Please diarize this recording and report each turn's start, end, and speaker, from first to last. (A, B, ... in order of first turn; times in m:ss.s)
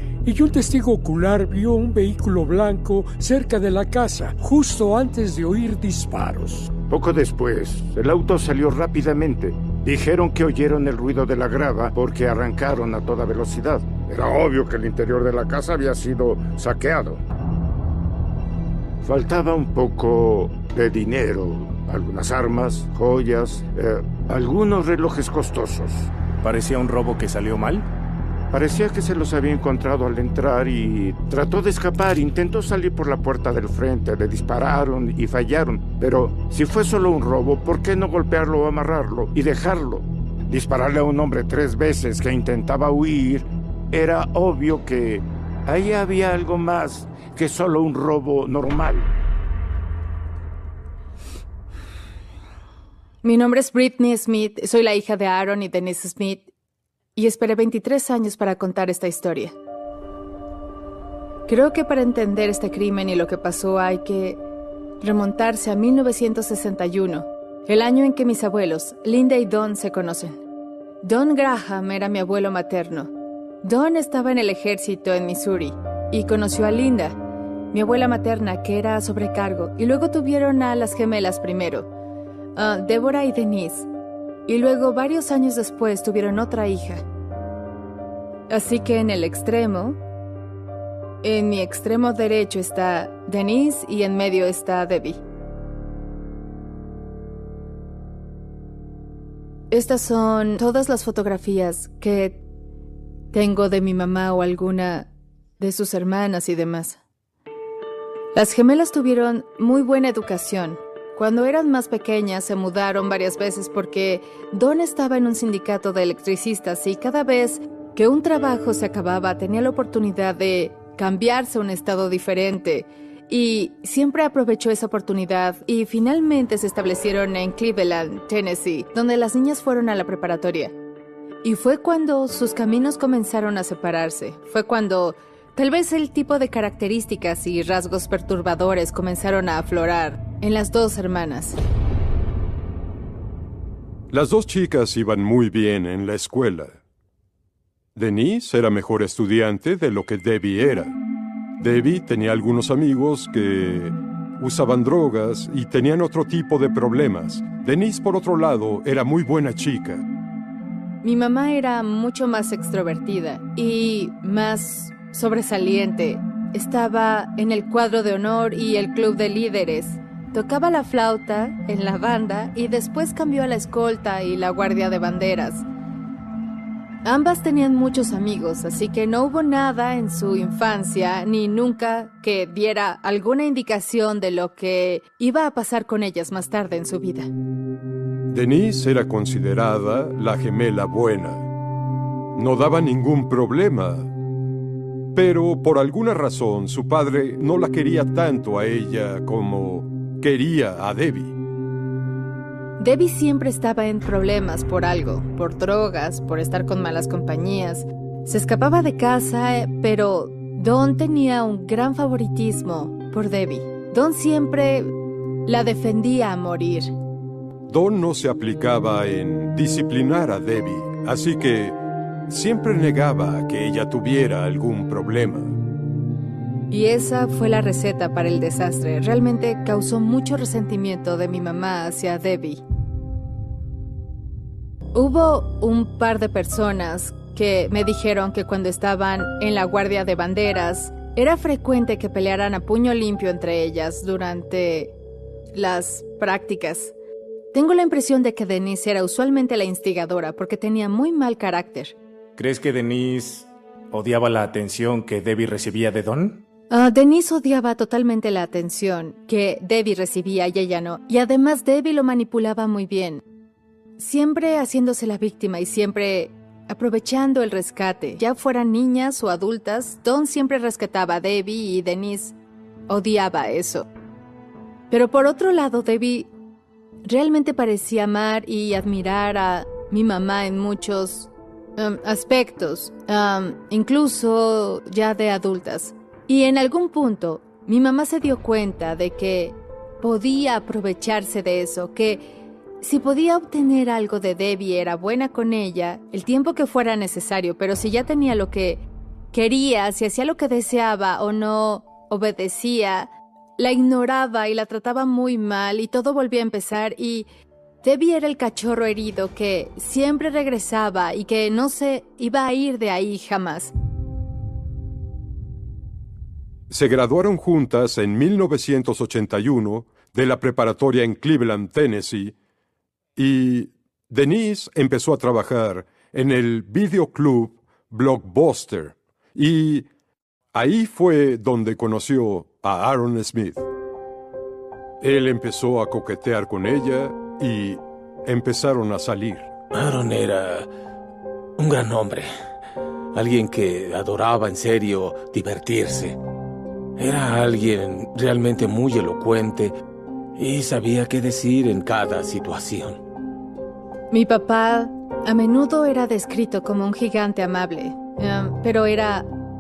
0:00.2-0:06.7 A
0:06.9-0:17.2 B
0:19.0-0:26.1 B
0:26.4-0:27.8 C
0:28.5-0:49.1 B
0:53.2-0:56.5 D
0:57.2-0:59.6 D
1:01.5-1:04.4 D
1:05.0-1:10.4 D
1:11.0-1:17.2 D
1:17.7-1:21.9 D
1:22.6-1:23.9 D
1:24.5-1:27.0 D
1:28.5-1:30.0 D
1:31.2-1:35.2 D
1:39.7-1:42.4 D
1:43.3-1:47.0 D
1:48.4-2:10.7 D
2:11.4-2:21.6 D
2:24.1-2:26.8 E
2:28.0-2:31.0 E
2:31.6-2:40.0 E
2:41.0-2:55.6 D
2:57.0-3:07.3 D
3:08.3-3:11.5 E
3:12.4-3:14.1 E
3:15.2-3:21.3 E
3:22.8-3:34.9 D
3:35.5-3:36.9 D
3:37.7-3:45.6 E
3:46.7-3:52.6 D
3:54.9-4:04.9 D
4:05.5-4:06.9 D
4:07.5-4:12.0 D
4:12.4-4:16.4 C
4:16.7-4:23.2 D
4:24.0-4:32.4 D
4:32.9-4:33.9 D
4:34.9-4:36.3 D
4:37.1-4:52.3 D
4:52.8-5:07.3 D
5:07.8-5:13.7 D
5:16.7-5:22.3 E
5:23.2-5:29.9 E
5:30.5-5:33.7 E
5:35.0-5:39.5 E
5:39.7-5:40.7 F
5:41.6-5:42.3 F
5:43.1-5:46.2 F
5:47.0-5:49.8 F
5:50.4-5:53.0 F
5:54.1-5:59.3 D